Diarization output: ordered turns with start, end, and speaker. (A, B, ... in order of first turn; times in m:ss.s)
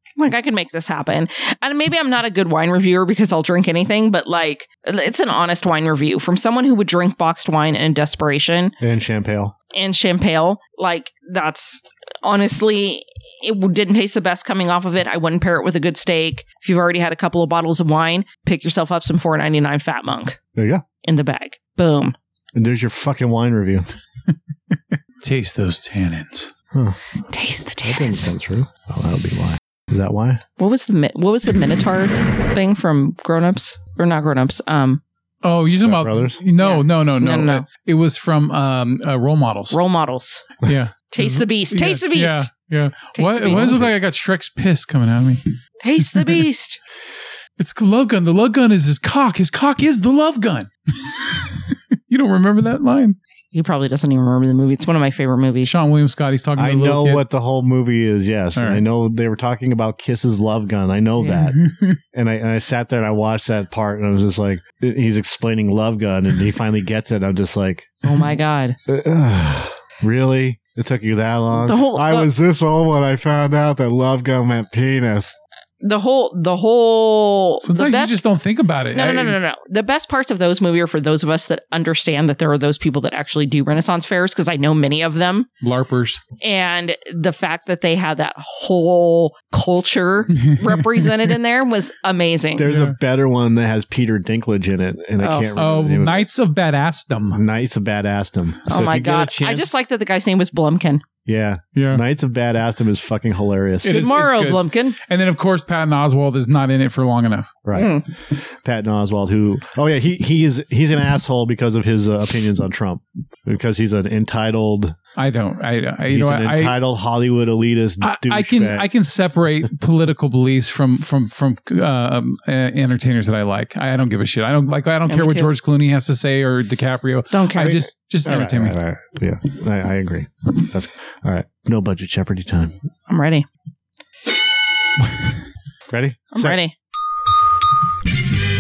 0:00.2-0:08.8 A
0:08.8-0:09.5 B
0:09.7-0:20.4 A
0:20.6-0:20.8 B
0:21.0-0:22.1 A
0:22.5-0:23.8 B
0:24.7-0:26.5 C
0:26.7-0:27.0 B
0:27.3-0:28.3 A
0:27.8-0:30.4 B
0:30.6-0:35.0 A
0:35.4-0:39.8 C
0:35.7-0:36.4 B
0:36.6-0:37.6 A
0:39.7-0:40.5 A
0:40.6-0:45.4 C
0:41.1-0:42.5 A
0:43.1-0:43.8 A
0:43.5-0:43.9 B
0:45.8-0:46.8 A
0:46.0-0:46.4 C
0:47.6-0:53.2 C
0:53.5-0:55.7 A
0:55.6-0:57.2 C
0:56.6-1:01.6 B
0:58.6-0:58.8 C
1:01.2-1:02.0 C
1:02.1-1:08.2 B
1:08.0-1:08.8 A
1:08.9-1:15.4 B
1:11.5-1:12.3 A
1:15.8-1:18.2 A
1:17.6-1:19.4 C
1:18.9-1:25.5 A
1:25.6-1:26.2 C
1:26.4-1:32.7 A
1:30.4-1:31.3 C
1:32.6-1:36.3 B
1:32.6-1:33.0 C
1:35.2-1:35.5 A
1:35.5-1:37.4 C
1:37.3-1:39.8 B
1:38.7-1:41.0 A
1:41.2-1:43.9 B
1:41.7-1:42.0 C
1:43.8-1:45.0 A
1:43.8-1:47.5 C
1:47.6-1:55.0 B
1:47.7-1:48.0 A
1:55.2-1:56.7 C
1:56.1-1:58.9 B
1:58.0-2:08.8 C
2:05.1-2:05.5 A
2:07.3-2:07.8 A
2:08.2-2:12.7 B
2:13.1-2:13.5 A
2:15.9-2:16.6 B
2:16.3-2:16.7 A